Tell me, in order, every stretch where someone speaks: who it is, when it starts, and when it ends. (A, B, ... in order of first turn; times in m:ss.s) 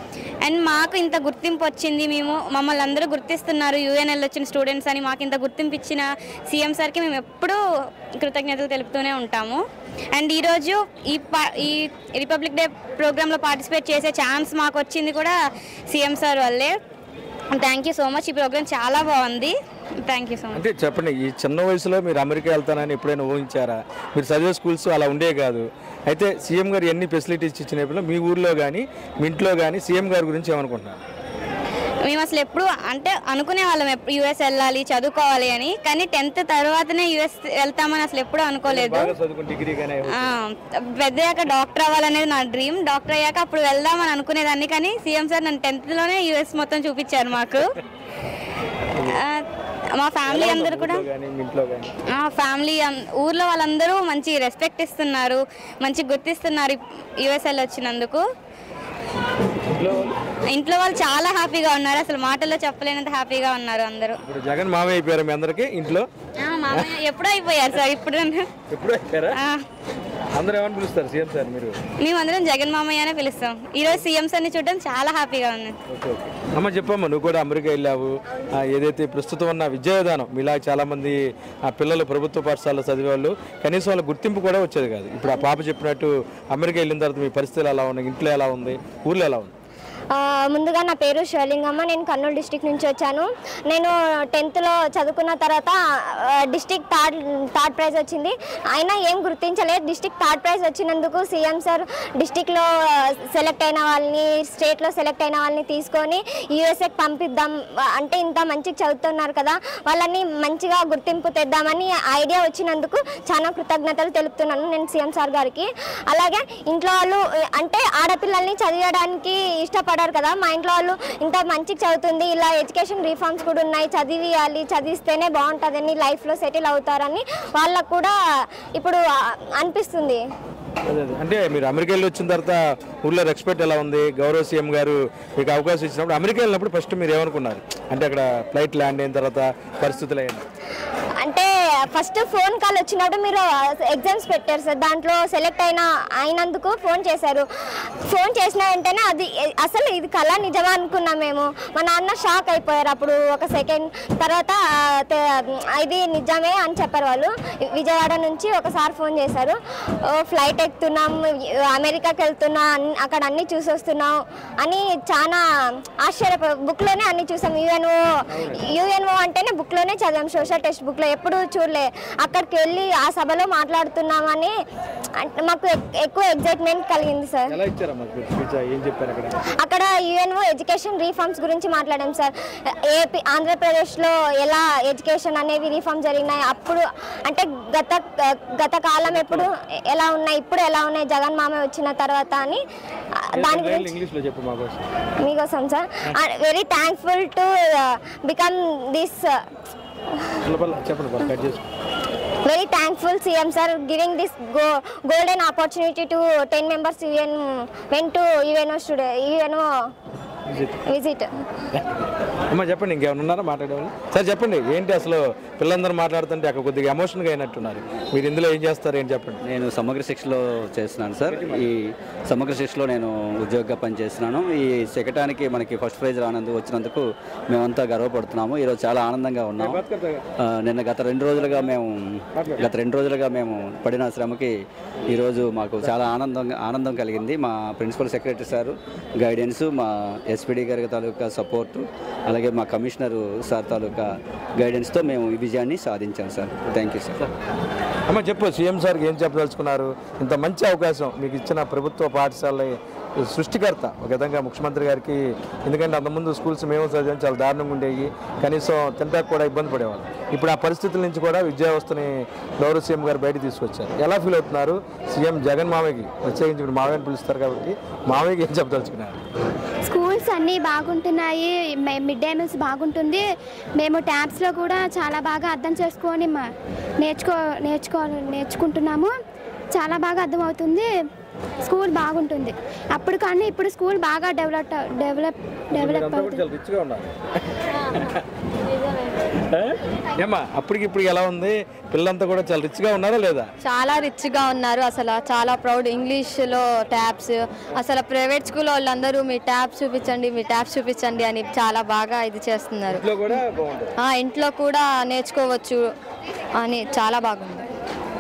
0:00.4-0:07.6 A
0:08.2-0:09.6 A
0:10.1-0:15.3 A
0:15.9-0:16.8 A
0:17.5-0:20.6 A
0:20.5-0:31.0 B
0:32.1-0:39.1 A
0:38.6-0:40.4 B
0:40.1-0:47.7 A
0:49.1-0:49.4 A
0:50.0-0:51.1 A
0:50.2-0:51.9 B
0:52.1-0:58.2 A
0:59.8-1:00.2 B
1:00.5-1:04.2 A
1:04.3-1:06.1 B
1:06.4-1:08.5 A
1:08.7-1:09.4 B
1:09.4-1:09.6 A
1:10.3-1:11.8 B
1:12.0-1:15.8 A
1:15.9-1:29.5 B
1:30.1-1:42.7 C
1:43.3-2:08.1 C
2:08.8-2:10.2 C
2:10.9-2:20.4 B
2:21.2-2:27.5 C
2:28.1-2:54.5 C
2:55.2-2:57.6 C
2:57.5-2:59.4 B
2:59.6-3:02.3 C
3:02.9-3:12.6 C
3:09.1-3:09.5 B
3:13.3-3:13.9 C
3:13.3-3:14.8 B
3:15.2-3:19.5 C
3:20.4-3:21.6 B
3:22.4-3:29.7 C
3:30.5-3:30.8 B
3:30.9-3:31.3 C
3:32.5-3:39.4 B
3:39.4-3:49.8 D
3:41.3-3:41.6 B
3:49.6-3:50.2 B
3:50.4-3:54.5 D
3:55.1-4:07.2 D
4:08.1-4:29.2 B
4:29.9-4:33.2 E
4:33.8-4:36.5 E
4:37.0-4:39.1 E
4:39.8-4:40.9 E
4:41.6-4:46.4 E
4:45.7-4:47.1 B
4:48.0-4:48.2 B
4:49.5-4:53.5 B
4:53.6-5:03.4 F
5:02.9-5:03.9 B
5:04.0-5:05.9 F
5:06.6-5:07.7 F